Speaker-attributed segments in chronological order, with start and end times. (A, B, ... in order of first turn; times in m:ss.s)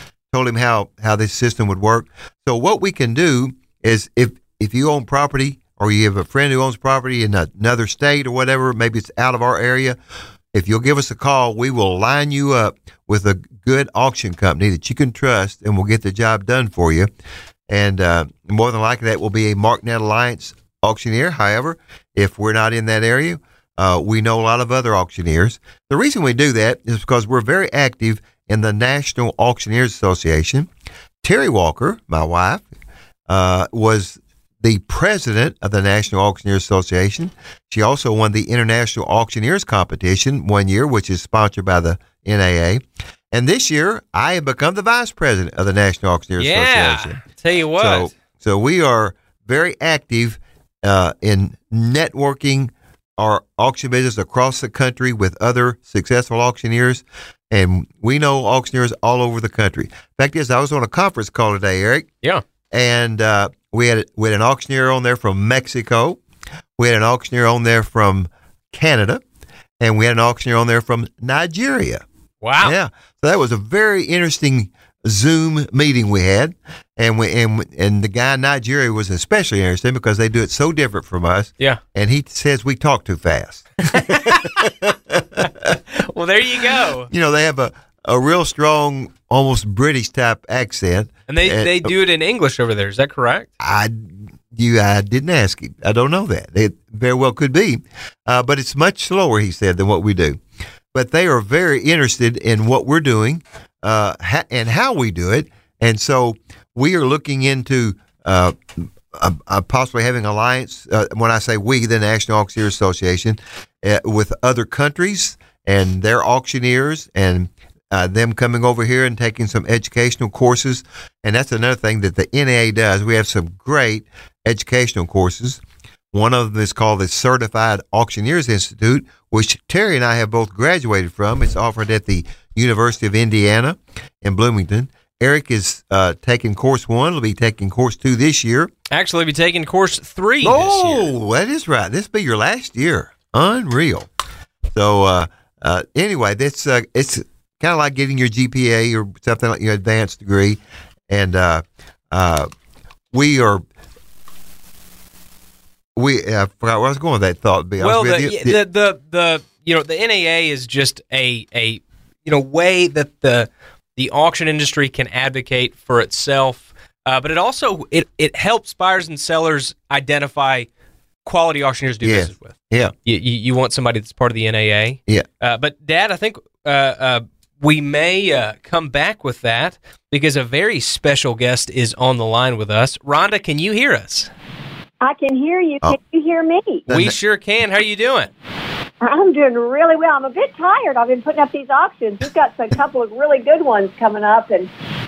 0:00.3-0:10.0 A
0:10.5-0:17.1 A
0:17.7-0:30.7 A
0:31.2-0:32.6 A
0:33.3-0:47.2 A
0:46.4-0:48.1 B
0:47.8-1:02.1 A
1:02.7-1:06.2 A
1:06.8-1:09.2 A
1:09.8-1:12.0 A
1:12.4-1:12.7 B
1:12.6-1:25.8 A
1:23.9-1:24.6 B
1:26.0-1:27.1 B
1:27.1-1:31.9 A
1:31.3-1:33.5 B
1:33.6-1:40.4 A
1:40.9-2:05.6 A
2:06.1-2:18.7 A
2:18.9-2:21.1 B
2:20.4-2:24.1 A
2:24.8-2:30.6 A
2:31.1-2:32.5 A
2:33.1-2:33.6 A
2:36.0-2:38.6 A
2:37.8-2:50.7 B
2:51.2-3:04.3 B
2:52.0-2:52.9 A
3:05.0-3:06.9 C
3:06.9-3:07.2 A
3:06.9-3:08.3 B
3:09.0-3:14.7 C